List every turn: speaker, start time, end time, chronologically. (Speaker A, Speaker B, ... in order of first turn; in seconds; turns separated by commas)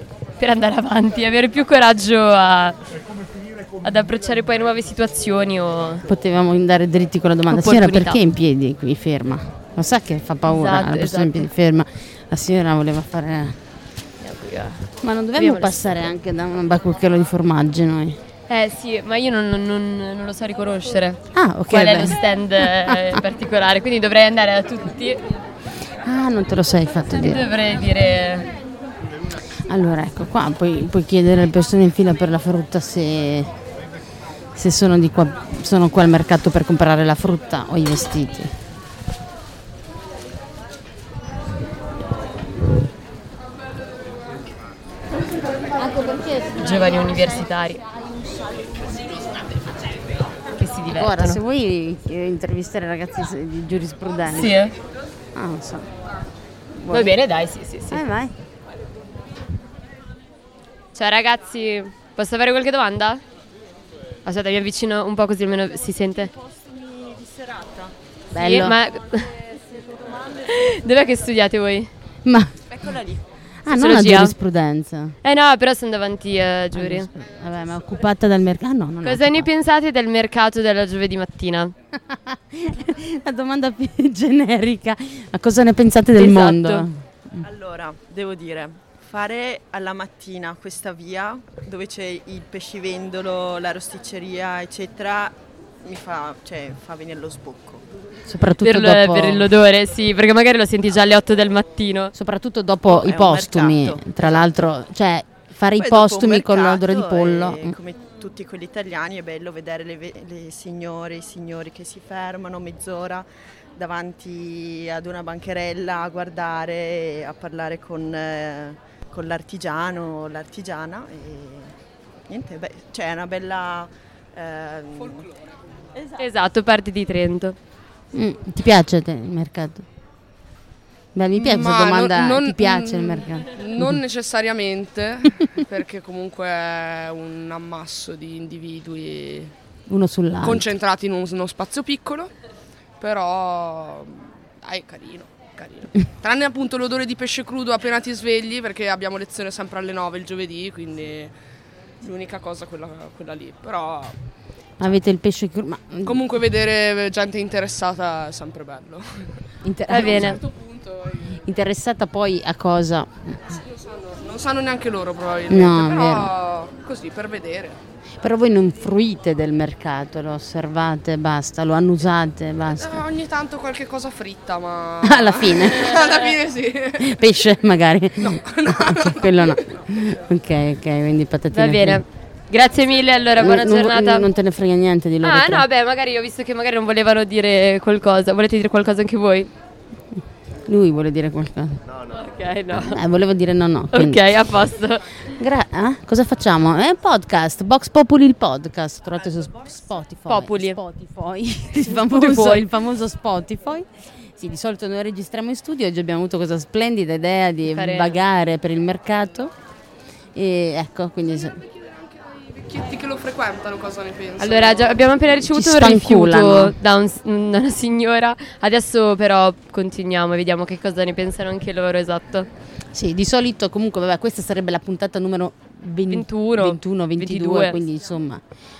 Speaker A: 0.4-2.8, Speaker A: 3.8-6.0, Speaker B: 6.0-13.6, Speaker A: 7.5-8.2, Speaker A: 10.4-11.5, Speaker A: 14.2-16.1, Speaker B: 15.0-18.2, Speaker A: 18.5-25.2, Speaker B: 21.3-23.2, Speaker B: 26.0-27.5, Speaker A: 27.1-28.5, Speaker B: 29.6-33.5, Speaker B: 34.5-38.5, Speaker B: 45.8-46.5, Speaker A: 46.5-47.8, Speaker A: 50.5-51.4, Speaker B: 50.9-54.6, Speaker A: 54.3-54.7, Speaker B: 55.3-55.9, Speaker B: 56.8-57.1, Speaker A: 56.9-58.0, Speaker B: 57.9-58.3, Speaker A: 60.9-63.2, Speaker A: 64.2-66.3, Speaker B: 68.3-68.8, Speaker A: 68.3-69.4, Speaker A: 70.4-71.9, Speaker B: 72.2-72.8, Speaker B: 73.6-75.2, Speaker A: 73.7-74.3, Speaker A: 75.2-77.1, Speaker B: 76.7-79.5, Speaker A: 79.0-81.7, Speaker B: 81.9-87.4, Speaker A: 86.2-86.9, Speaker C: 87.4-97.8, Speaker B: 98.3-99.5, Speaker A: 98.6-102.1, Speaker B: 102.1-107.7, Speaker C: 102.9-104.5, Speaker C: 105.8-113.2, Speaker C: 113.8-121.7, Speaker C: 122.3-125.3, Speaker A: 126.2-127.5, Speaker B: 128.1-129.8, Speaker B: 131.1-134.0, Speaker D: 131.3-139.5, Speaker B: 139.9-140.7, Speaker D: 140.4-142.3, Speaker D: 143.0-151.3, Speaker D: 152.0-154.1, Speaker B: 154.8-156.2, Speaker D: 156.0-159.3, Speaker B: 159.6-160.4, Speaker A: 159.9-160.4, Speaker D: 160.0-161.4, Speaker B: 161.4-163.6, Speaker D: 163.7-167.8, Speaker B: 165.5-166.3, Speaker B: 168.2-173.0, Speaker D: 172.8-177.2, Speaker B: 175.0-176.1, Speaker B: 177.0-182.0, Speaker D: 178.2-179.7, Speaker A: 181.5-184.3, Speaker B: 183.4-185.7, Speaker A: 185.2-189.5, Speaker B: 190.7-191.8, Speaker A: 192.1-193.0, Speaker B: 192.7-194.3, Speaker A: 193.9-195.1, Speaker B: 195.3-209.5, Speaker A: 200.3-200.8, Speaker A: 201.9-202.7, Speaker A: 207.7-208.2, Speaker B: 210.3-211.6, Speaker D: 211.8-215.1, Speaker A: 214.4-222.5, Speaker B: 215.4-216.8, Speaker B: 222.9-228.4, Speaker A: 226.1-227.8